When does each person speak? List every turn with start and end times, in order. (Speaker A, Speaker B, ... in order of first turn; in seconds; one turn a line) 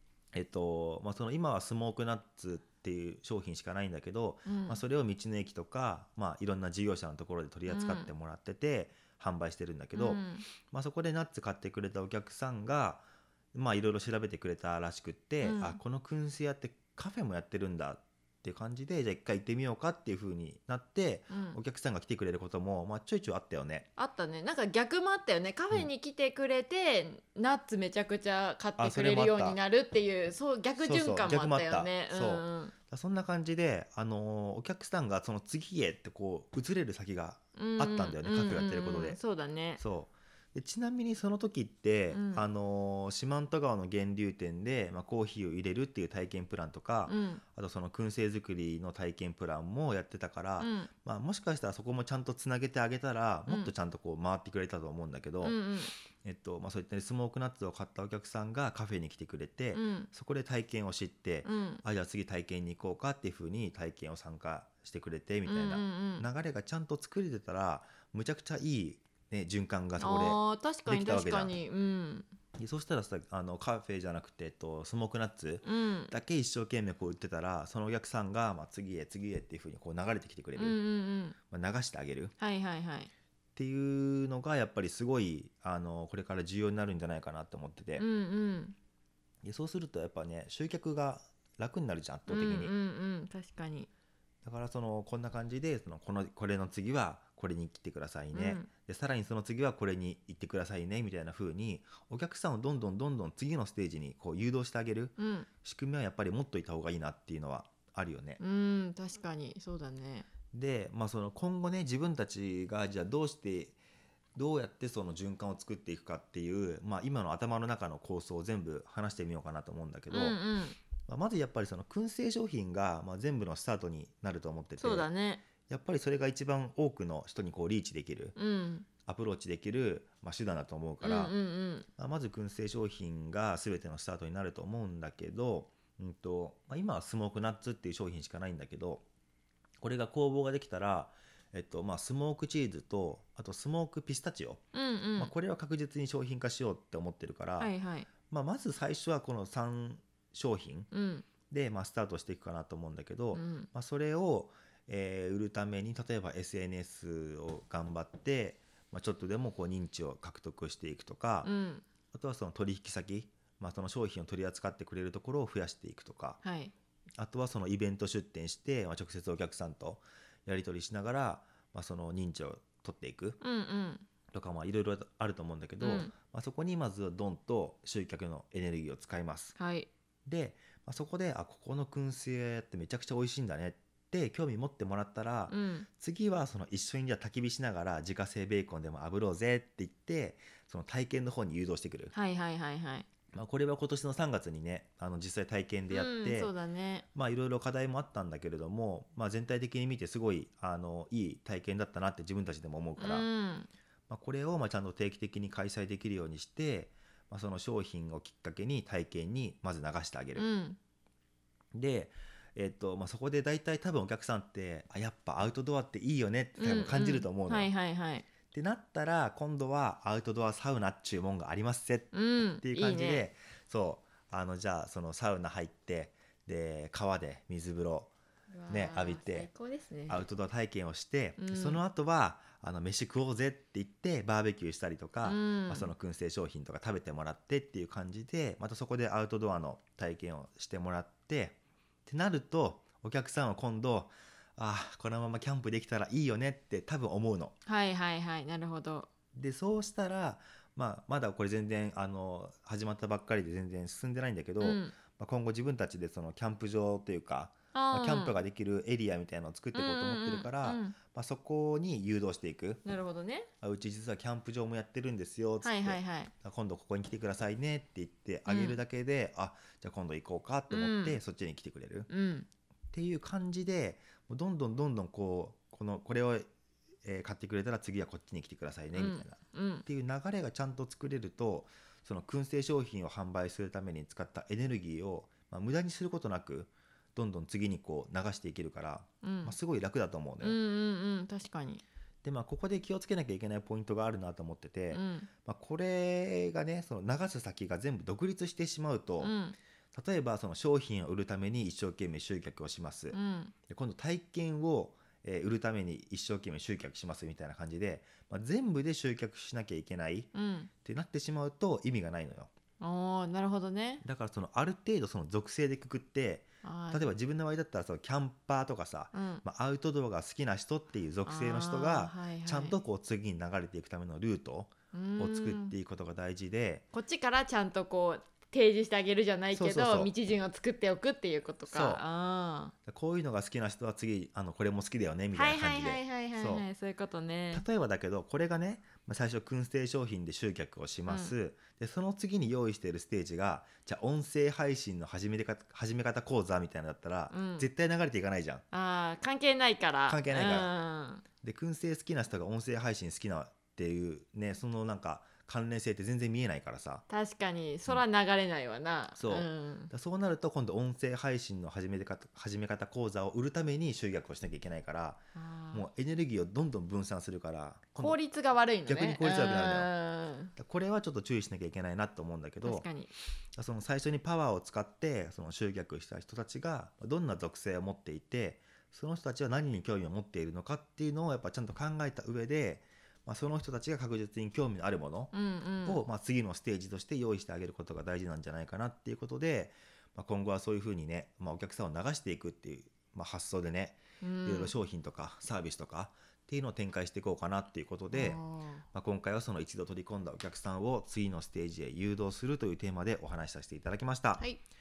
Speaker A: 0.3-23.9
Speaker B: 4.5-4.8
Speaker B: 7.7-8.1
Speaker B: 9.9-10.5
Speaker B: 15.4-15.8
Speaker B: 21.3-21.6
Speaker B: 24.0-32.7
Speaker A: 28.8-29.6
Speaker A: 30.8-39.2
Speaker B: 37.6-39.8
Speaker A: 39.8-55.6
Speaker B: 42.1-42.5
Speaker B: 47.1-47.4
Speaker B: 50.6-50.9
Speaker B: 55.4-55.9
Speaker A: 56.1-71.5
Speaker B: 59.7-60.1
Speaker B: 61.4-61.8
Speaker B: 65.5-66.3
Speaker B: 70.0-72.3
Speaker A: 72.6-80.8
Speaker B: 75.6-76.1
Speaker B: 80.6-81.4
Speaker A: 81.5-82.3
Speaker B: 82.4-83.1
Speaker A: 83.6-88.0
Speaker B: 88.0-88.8
Speaker A: 89.4-92.7
Speaker B: 92.3-93.9
Speaker A: 94.4-108.4
Speaker B: 98.3-98.7
Speaker B: 105.2-105.5
Speaker B: 108.4-110.3
Speaker A: 110.5-113.8
Speaker A: 114.3-120.4
Speaker B: 120.1-120.8
Speaker A: 121.0-125.1
Speaker B: 124.8-125.4
Speaker A: 125.7-128.3
Speaker B: 128.3-128.9
Speaker A: 129.1-131.3
Speaker B: 131.0-131.9
Speaker A: 132.0-139.0
Speaker A: 139.8-144.6
Speaker B: 144.7-145.3
Speaker A: 145.2-147.7
Speaker B: 147.6-148.1
Speaker A: 148.3-150.9
Speaker B: 150.9-151.3
Speaker A: 151.5-161.5
Speaker B: 153.3-153.7
Speaker B: 161.4-161.8
Speaker A: 162.1-166.4
Speaker B: 166.4-166.7
Speaker A: 167.2-173.4
Speaker B: 173.4-174.1
Speaker A: 174.3-179.6
Speaker B: 175.8-176.1
Speaker B: 179.6-179.9
Speaker A: 180.3-192.1
Speaker B: 185.5-185.9
Speaker B: 192.1-193.1
Speaker A: 193.3-196.5
Speaker B: 195.9-197.1
Speaker A: 197.2-203.3
Speaker B: 203.0-203.7
Speaker A: 204.1-210.5
Speaker B: 210.4-210.8
Speaker A: 211.7-217.7
Speaker B: 216.6-218.3
Speaker A: 218.5-228.1
Speaker B: 222.1-223.2
Speaker B: 228.5-230.3
Speaker A: 228.7-229.5
Speaker A: 230.1-247.6
Speaker B: 231.4-231.8
Speaker B: 235.2-235.9
Speaker B: 247.7-249.1
Speaker A: 249.3-262.8
Speaker B: 254.6-254.9
Speaker B: 257.7-258.4
Speaker B: 259.8-261.0
Speaker B: 262.8-263.5
Speaker A: 263.6-272.1
Speaker B: 265.6-266.3
Speaker B: 268.5-268.8
Speaker B: 270.7-271.2
Speaker B: 272.1-272.5
Speaker A: 272.9-276.5
Speaker A: 277.0-290.6
Speaker B: 278.9-279.9
Speaker B: 289.2-289.6
Speaker B: 290.4-291.8
Speaker A: 292.2-299.4
Speaker B: 294.9-295.3
Speaker B: 299.2-299.6
Speaker A: 299.9-303.2
Speaker B: 303.1-303.5
Speaker A: 303.7-310.3
Speaker B: 310.3-310.7
Speaker A: 310.9-312.5
Speaker B: 312.8-314.0
Speaker A: 314.0-326.8
Speaker B: 316.6-317.0
Speaker B: 319.1-319.4
Speaker B: 321.3-322.8
Speaker B: 324.9-325.8
Speaker B: 326.9-332.7
Speaker A: 329.5-330.1
Speaker A: 331.7-332.0
Speaker A: 332.9-336.6
Speaker B: 335.3-337.6
Speaker A: 337.5-348.6
Speaker B: 341.1-341.3
Speaker B: 347.3-347.7
Speaker B: 348.7-351.2
Speaker A: 350.1-350.7
Speaker A: 351.4-357.0
Speaker B: 357.1-359.9
Speaker A: 359.2-368.2
Speaker B: 365.4-365.9
Speaker B: 368.0-370.5
Speaker A: 368.9-369.9
Speaker A: 370.6-372.9
Speaker B: 372.6-373.1
Speaker A: 373.6-385.3
Speaker B: 385.3-386.0
Speaker A: 385.9-398.4
Speaker B: 394.2-394.7
Speaker B: 398.1-398.8
Speaker A: 398.9-404.4